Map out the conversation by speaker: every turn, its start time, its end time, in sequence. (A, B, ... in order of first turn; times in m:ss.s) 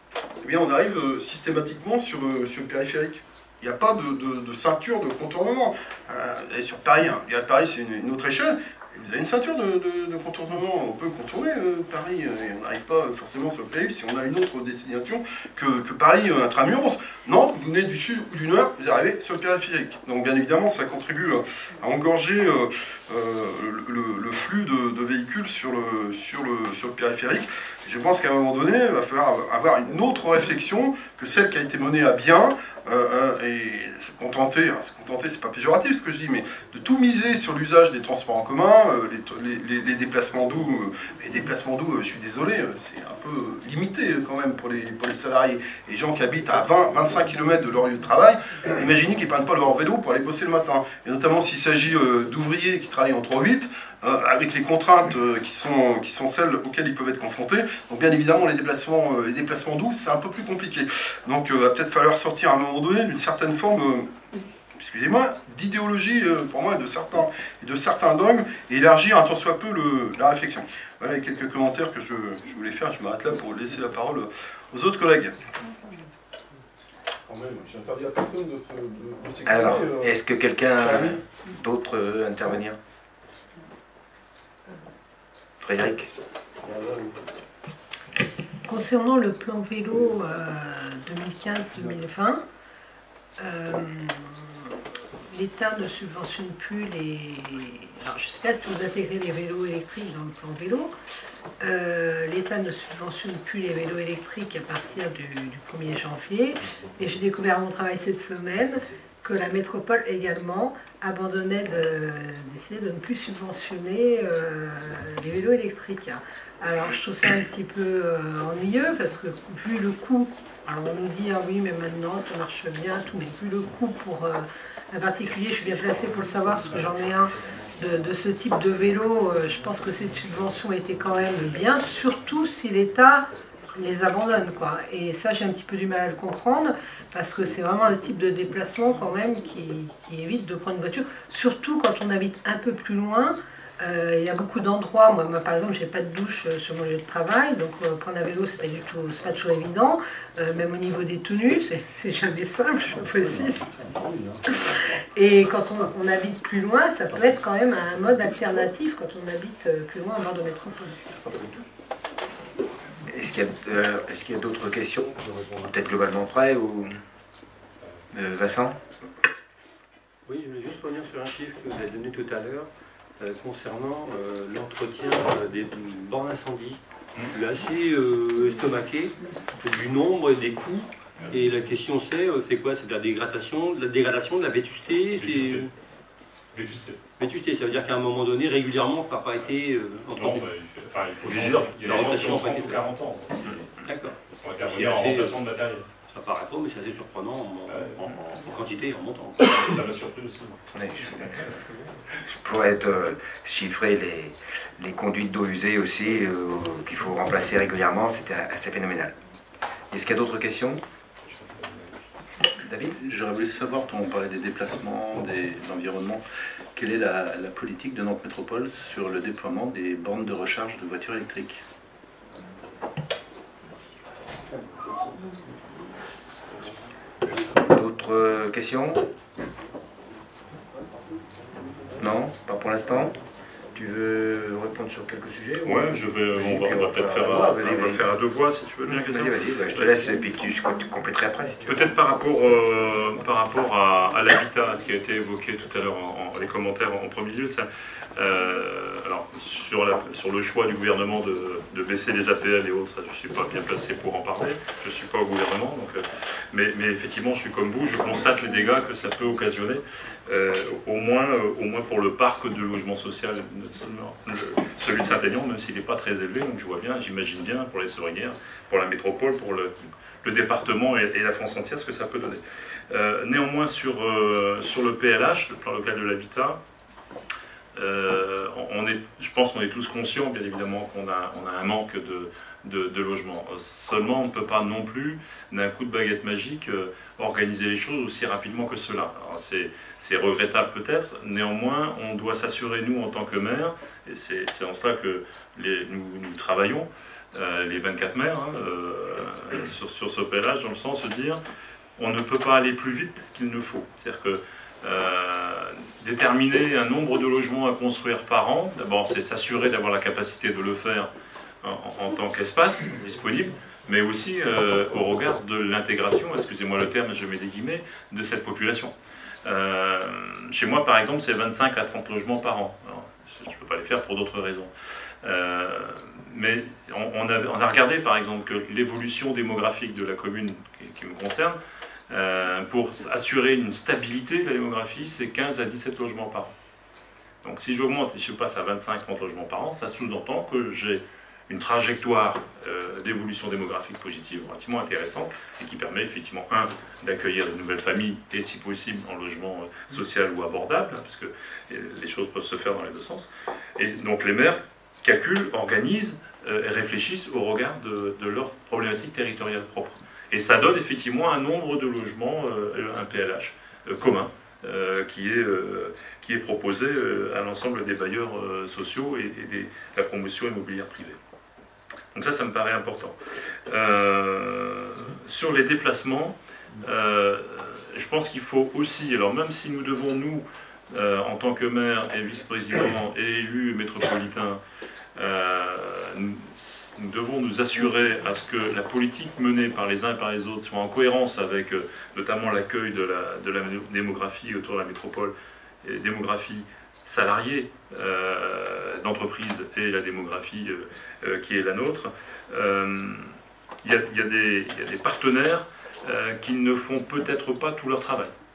0:00.4-1:04.1 A
1:04.8-1:15.4 A
1:17.3-1:20.1 A
1:19.4-1:22.8 B
1:20.8-1:21.2 A
1:25.6-1:26.1 B
1:26.6-1:27.2 A
1:28.6-1:32.4 C
1:33.4-1:34.6 C
1:35.3-1:40.9 C
1:41.6-2:33.7 C
2:33.7-2:34.4 D
2:34.5-2:41.3 C
2:43.1-2:47.0 B
2:48.1-2:48.8 B
2:50.2-2:56.8 D
2:57.3-3:05.7 D
3:05.1-3:05.6 E
3:06.5-3:07.0 E
3:07.2-3:10.4 D
3:10.1-3:13.7 E
3:11.2-3:12.9 D
3:13.8-3:15.4 D
3:14.4-3:15.8 E
3:16.1-3:19.7 D
3:17.7-3:18.0 E
3:19.6-3:21.5 E
3:20.7-3:21.4 B
3:22.2-3:29.1 B
3:29.9-3:30.8 B
3:31.3-3:32.1 E
3:32.6-3:33.0 B
3:33.0-3:36.2 F
3:36.7-3:41.6 F
3:47.6-3:49.0 B
3:52.0-3:53.1 B
3:53.7-3:58.1 B
3:55.6-3:59.9 E
3:58.8-4:01.8 B
4:01.6-4:29.7 E
4:30.2-4:36.6 E
4:37.7-5:01.4 E
5:02.0-5:11.1 E
5:11.6-5:18.9 E
5:19.4-5:24.7 E
5:25.2-5:31.6 E
5:32.1-5:36.5 E
5:37.4-6:11.2 E
6:12.1-6:24.6 E
6:25.1-6:48.3 E